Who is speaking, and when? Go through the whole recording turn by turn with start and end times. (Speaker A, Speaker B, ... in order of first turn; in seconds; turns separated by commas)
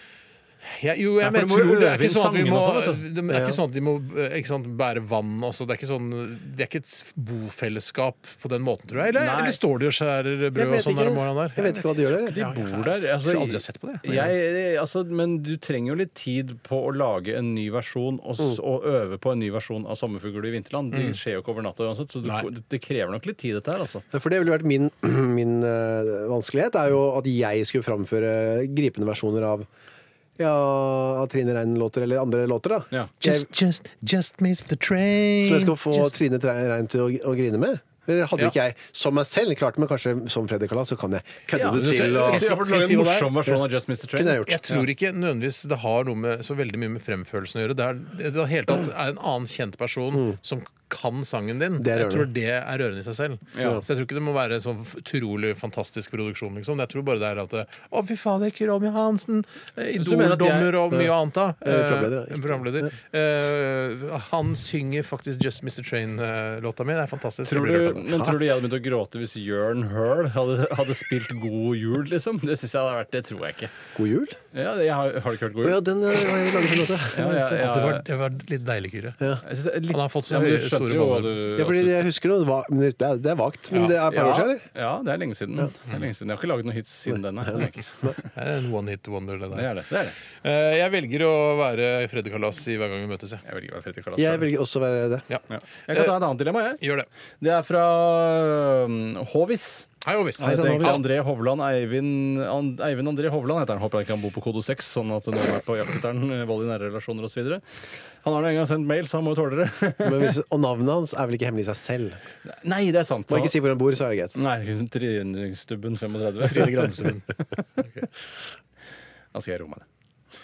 Speaker A: 0.7-14.3, Speaker B: 1.2-3.0, Speaker C: 3.3-3.6, Speaker B: 9.1-9.6, Speaker C: 10.5-12.4, Speaker B: 12.3-24.0, Speaker A: 20.9-21.2, Speaker C: 24.1-29.7, Speaker C: 30.4-33.5, Speaker A: 33.2-36.1, Speaker C: 35.4-42.5, Speaker B: 41.5-44.8, Speaker A: 41.7-43.4, Speaker C: 44.1-44.6, Speaker A: 44.4-68.0, Speaker C: 51.8-52.3, Speaker B: 53.5-53.8, Speaker B: 60.0-60.8, Speaker C: 60.9-62.9, Speaker B: 67.4-73.7, Speaker C: 68.0-68.4, Speaker C: 73.9-74.4, Speaker B: 74.5-75.8, Speaker C: 75.6-77.6, Speaker B: 77.1-78.0, Speaker A: 77.5-79.2, Speaker B: 79.4-82.0, Speaker A: 79.9-81.4, Speaker C: 81.6-84.6, Speaker B: 84.1-88.2, Speaker C: 87.1-87.6, Speaker A: 88.3-89.7, Speaker B: 89.5-90.2, Speaker A: 90.3-93.4, Speaker B: 93.4-94.5, Speaker C: 94.2-95.3, Speaker A: 95.3-96.2, Speaker B: 95.5-96.8, Speaker A: 96.8-97.1, Speaker B: 97.4-99.9, Speaker A: 100.0-101.0, Speaker C: 100.4-101.0, Speaker B: 100.4-107.6, Speaker B: 108.2-110.3, Speaker C: 110.0-112.2, Speaker B: 112.5-113.6, Speaker C: 113.3-114.4, Speaker B: 114.3-117.6, Speaker A: 116.4-117.2, Speaker B: 119.3-119.8